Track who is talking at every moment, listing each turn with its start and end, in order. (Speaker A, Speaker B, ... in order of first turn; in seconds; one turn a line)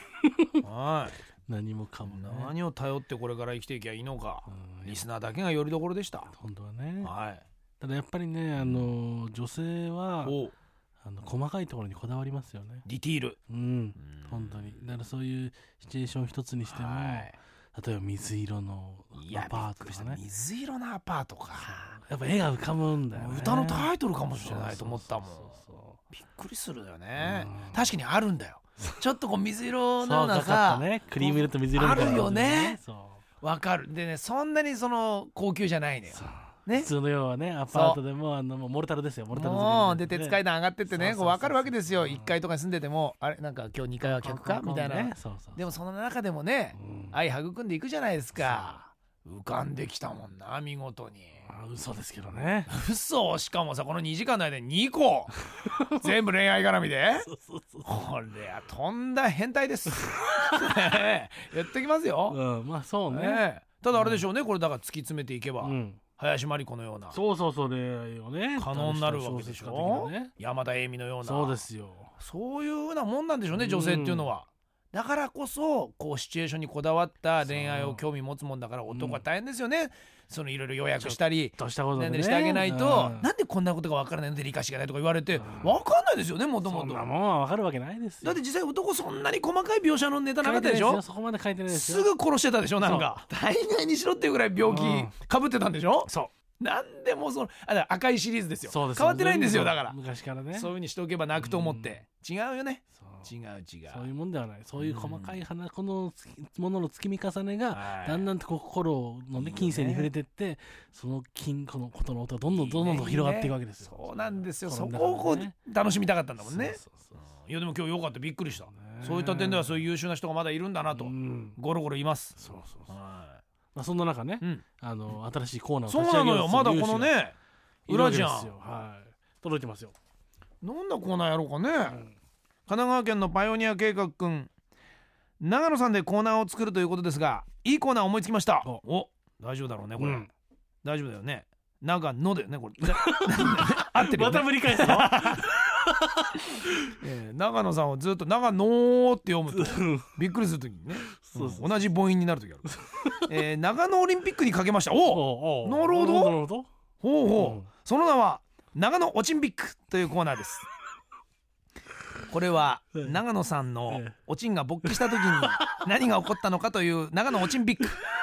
Speaker A: 0.2-0.6
Speaker B: 0.6-1.2
Speaker A: 1.4-2.5
Speaker B: 2.0-6.3
Speaker A: 4.5-5.0
Speaker A: 6.3-7.1
Speaker B: 7.0-7.4
Speaker A: 7.8-10.3
Speaker B: 8.6-8.9
Speaker B: 10.2-10.6
Speaker A: 11.0-12.8
Speaker B: 12.8-13.4
Speaker A: 13.5-20.2
Speaker B: 14.0-14.6
Speaker B: 16.7-17.4
Speaker B: 19.1-21.9
Speaker A: 21.6-26.0
Speaker B: 23.1-25.6
Speaker B: 26.1-32.8
Speaker A: 27.2-27.9
Speaker A: 30.0-33.2
Speaker B: 33.4-36.9
Speaker A: 36.1-42.4
Speaker B: 37.7-38.0
Speaker B: 39.3-51.5
Speaker A: 44.0-45.6
Speaker A: 46.7-47.2
Speaker A: 48.4-48.8
Speaker A: 51.4-52.7
Speaker B: 52.7-57.3
Speaker A: 55.6-56.1
Speaker A: 57.2-57.9
Speaker B: 57.8-62.4
Speaker A: 60.0-60.7
Speaker A: 62.3-64.3
Speaker B: 63.1-67.2
Speaker A: 65.6-66.0
Speaker A: 67.1-70.3
Speaker B: 68.6-71.6
Speaker A: 71.2-72.1
Speaker B: 72.2-87.1
Speaker A: 73.5-74.3
Speaker A: 77.4-78.0
Speaker A: 78.9-79.2
Speaker A: 81.0-83.3
Speaker A: 85.3-85.8
Speaker A: 86.6-88.4
Speaker B: 88.2-91.0
Speaker A: 90.4-92.1
Speaker B: 91.7-100.0
Speaker A: 92.8-93.1
Speaker A: 94.6-95.1
Speaker A: 98.7-100.7
Speaker B: 100.5-104.1
Speaker A: 101.4-102.0
Speaker A: 103.0-103.3
Speaker A: 103.9-115.5
Speaker B: 104.8-105.4
Speaker B: 107.7-108.3
Speaker B: 109.3-110.1
Speaker B: 112.5-122.4
Speaker A: 116.4-117.2
Speaker A: 118.7-119.8
Speaker A: 120.9-121.6
Speaker A: 122.4-122.9
Speaker B: 122.9-123.4
Speaker A: 123.7-127.1
Speaker B: 125.9-127.3
Speaker B: 127.9-128.5
Speaker A: 127.9-129.9
Speaker B: 130.6-132.0
Speaker A: 131.9-132.1
Speaker B: 132.7-134.5
Speaker B: 135.4-140.3
Speaker A: 140.0-140.3
Speaker B: 140.8-145.5
Speaker A: 142.8-146.9
Speaker B: 146.9-152.7
Speaker A: 149.5-150.1
Speaker A: 151.1-151.9
Speaker A: 152.6-153.3
Speaker B: 153.2-156.3
Speaker A: 155.1-156.7
Speaker B: 157.0-160.7
Speaker A: 157.3-157.7
Speaker B: 162.3-168.0
Speaker A: 164.8-165.8